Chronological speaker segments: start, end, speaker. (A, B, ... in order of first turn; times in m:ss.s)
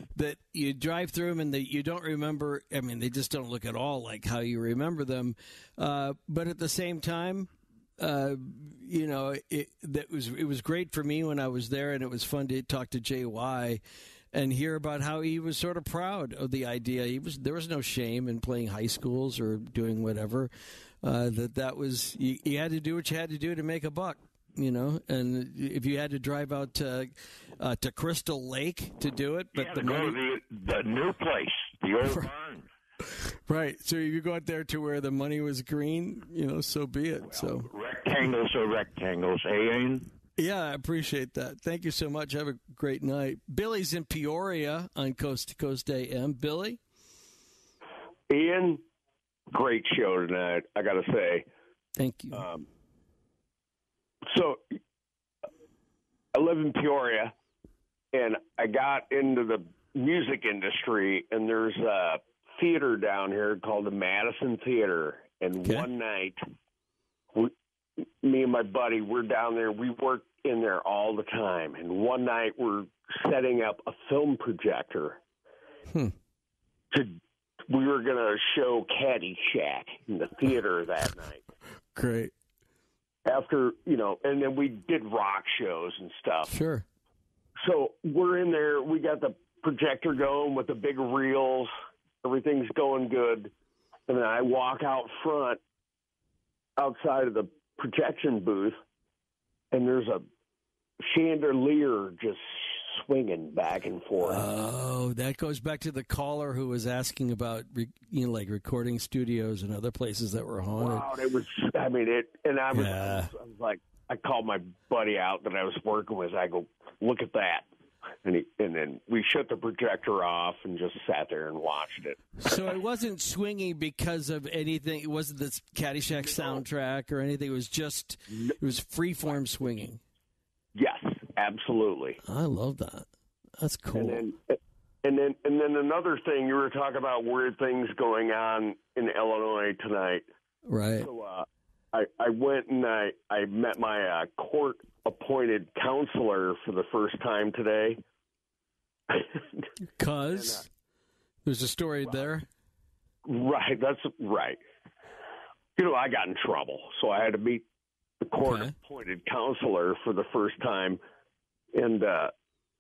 0:00.1-0:13.8 A
0:14.3-0:20.5 A
0:21.0-0:30.2 A
0:29.6-0:32.7 B
0:33.1-0:37.7 A
0:37.3-0:40.1 B
0:40.4-0:46.8 A
0:48.3-0:48.8 C
0:49.5-0:51.5 C
0:52.0-0:52.4 A
0:52.3-0:52.7 C
0:54.3-0:54.8 C
0:56.3-0:57.3 C
0:58.1-1:06.4 C
1:08.2-1:15.2 C
1:16.9-1:21.4 C
1:22.0-1:22.3 A
1:23.3-1:26.5 C
1:26.5-1:26.8 A
1:27.6-1:31.7 C
1:32.2-1:33.5 C
1:34.1-1:35.6 C
1:36.8-1:38.8 C
1:39.7-1:40.3 C
1:41.0-1:44.4 C
1:44.2-1:51.1 A
1:50.8-1:57.7 C
1:52.7-1:53.3 A
1:58.2-2:02.5 C
2:02.4-2:10.0 A
2:06.3-2:06.6 C
2:10.8-2:12.2 C
2:12.2-2:13.1 A
2:13.6-2:14.2 A
2:13.9-2:20.3 C
2:20.7-2:21.1 A
2:21.0-2:28.0 C
2:29.1-2:29.6 C
2:30.0-2:30.7 A
2:30.3-2:30.6 C
2:31.4-2:32.5 A
2:33.2-2:34.6 C
2:35.8-2:37.6 C
2:38.2-2:41.0 C
2:38.4-2:38.7 A
2:41.7-2:42.3 C